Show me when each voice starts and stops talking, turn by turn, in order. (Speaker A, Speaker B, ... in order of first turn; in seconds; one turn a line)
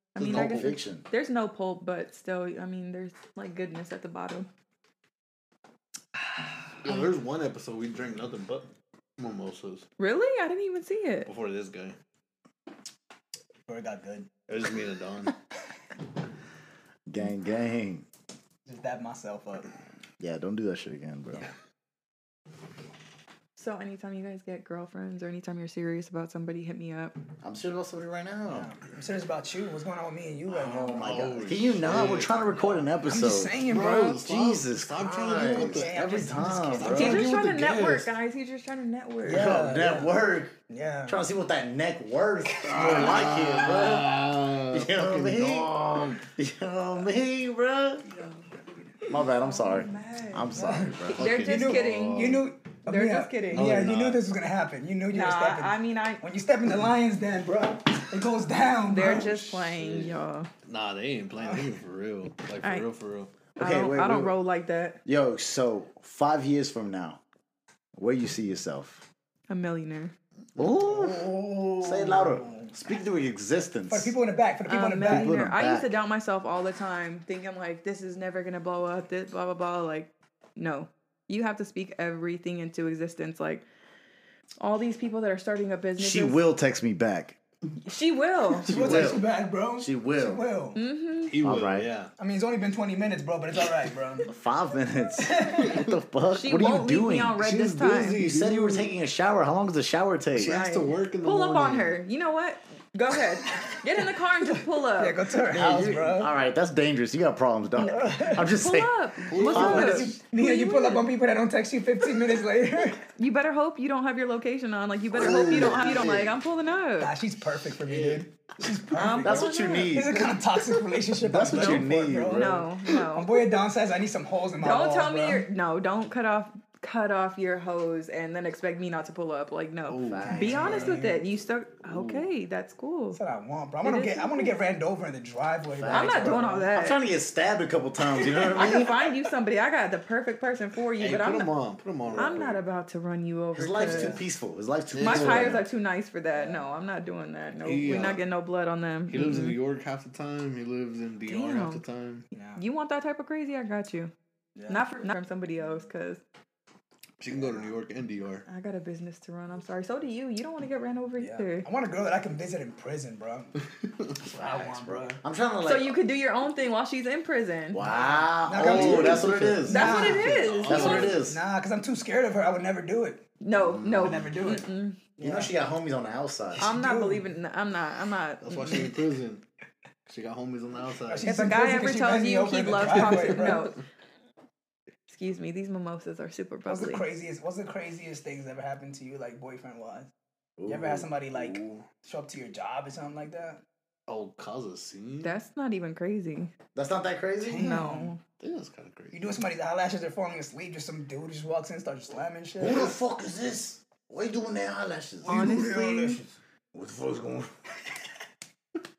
Speaker A: 0.1-4.5
Speaker B: 0.1-1.1
Speaker C: 6.8-9.8
Speaker A: 10.0-11.3
Speaker C: 11.2-12.0
Speaker D: 13.7-14.3
Speaker C: 14.5-15.3
Speaker B: 17.1-18.1
Speaker D: 18.6-19.7
Speaker B: 20.2-21.5
Speaker A: 23.6-27.1
Speaker B: 27.4-28.7
Speaker D: 28.5-31.2
Speaker B: 30.5-33.5
Speaker C: 31.0-32.7
Speaker D: 33.0-34.2
Speaker C: 33.6-36.0
Speaker B: 34.2-37.3
Speaker D: 35.4-37.2
Speaker C: 36.7-38.1
Speaker A: 36.9-39.6
Speaker B: 39.2-45.8
Speaker D: 39.2-40.1
Speaker D: 40.7-41.2
Speaker D: 42.5-43.3
Speaker C: 42.7-46.2
Speaker B: 46.4-48.0
Speaker A: 48.1-50.5
Speaker B: 49.1-51.3
Speaker D: 50.5-59.3
Speaker A: 51.0-53.7
Speaker C: 51.1-52.4
Speaker C: 53.5-54.2
Speaker A: 55.1-56.2
Speaker A: 58.9-60.5
Speaker C: 59.4-63.3
Speaker D: 61.4-61.6
Speaker A: 62.6-62.9
Speaker A: 63.5-65.0
Speaker B: 63.6-64.3
Speaker B: 65.0-67.2
Speaker B: 67.9-69.1
Speaker A: 69.5-70.1
Speaker B: 70.6-74.1
Speaker D: 70.6-72.7
Speaker D: 73.9-75.3
Speaker A: 74.7-83.6
Speaker B: 75.0-75.9
Speaker A: 84.6-86.4
Speaker B: 86.0-87.4
Speaker A: 87.8-88.7
Speaker D: 88.7-90.8
Speaker B: 88.7-90.4
Speaker A: 90.8-91.3
Speaker C: 91.3-92.1
Speaker B: 91.4-91.9
Speaker D: 92.2-94.3
Speaker B: 94.3-100.6
Speaker D: 95.2-95.8
Speaker A: 96.3-98.2
Speaker C: 97.5-98.9
Speaker C: 100.3-102.0
Speaker A: 100.4-105.2
Speaker D: 104.9-106.3
Speaker B: 105.5-110.2
Speaker D: 107.8-108.4
Speaker A: 108.2-111.1
Speaker C: 109.3-110.1
Speaker D: 109.4-113.0
Speaker A: 113.2-117.1
Speaker B: 115.1-116.3
Speaker D: 115.5-116.1
Speaker D: 117.0-122.6
Speaker C: 117.8-118.2
Speaker B: 118.9-120.2
Speaker A: 119.0-120.0
Speaker B: 121.2-122.7
Speaker A: 121.5-123.4
Speaker D: 123.1-125.5
Speaker A: 124.6-133.2
Speaker C: 129.9-131.0
Speaker B: 130.1-130.8
Speaker D: 130.2-131.2
Speaker C: 131.8-132.3
Speaker D: 133.1-136.7
Speaker A: 133.8-134.7
Speaker B: 135.7-139.0
Speaker A: 135.9-137.0
Speaker D: 138.1-138.8
Speaker A: 138.5-141.5
Speaker C: 141.0-142.6
Speaker A: 142.2-144.2
Speaker B: 143.5-145.6
Speaker D: 143.8-144.2
Speaker C: 144.9-145.6
Speaker A: 145.0-149.6
Speaker D: 146.3-146.7
Speaker C: 147.6-148.2
Speaker C: 149.1-152.3
Speaker A: 151.3-151.8
Speaker D: 152.3-152.6
Speaker A: 152.5-154.1
Speaker D: 154.6-154.9
Speaker A: 154.7-156.2
Speaker C: 157.2-158.4
Speaker D: 157.3-157.7
Speaker A: 158.5-161.7
Speaker D: 161.2-163.5
Speaker C: 163.9-164.2
Speaker D: 164.2-165.2
Speaker B: 164.3-166.0
Speaker A: 165.6-167.9
Speaker B: 167.7-171.4
Speaker D: 167.8-173.2
Speaker C: 168.5-171.2
Speaker A: 169.7-171.2
Speaker A: 173.4-175.0
Speaker C: 173.6-174.5
Speaker D: 174.0-175.5
Speaker B: 175.2-176.7
Speaker D: 176.6-177.2
Speaker A: 176.6-178.9
Speaker C: 178.4-179.4
Speaker C: 180.1-181.3
Speaker D: 181.1-183.8
Speaker A: 181.2-183.8
Speaker A: 185.1-187.1
Speaker D: 186.7-190.1
Speaker B: 190.6-191.6
Speaker D: 190.7-193.6
Speaker C: 194.1-195.3
Speaker A: 195.2-196.5
Speaker B: 196.7-197.8
Speaker D: 197.4-198.1
Speaker A: 197.6-198.2
Speaker C: 198.4-199.3
Speaker D: 199.1-203.0
Speaker B: 202.6-205.7
Speaker D: 205.2-206.3
Speaker A: 205.3-206.2
Speaker B: 206.7-207.5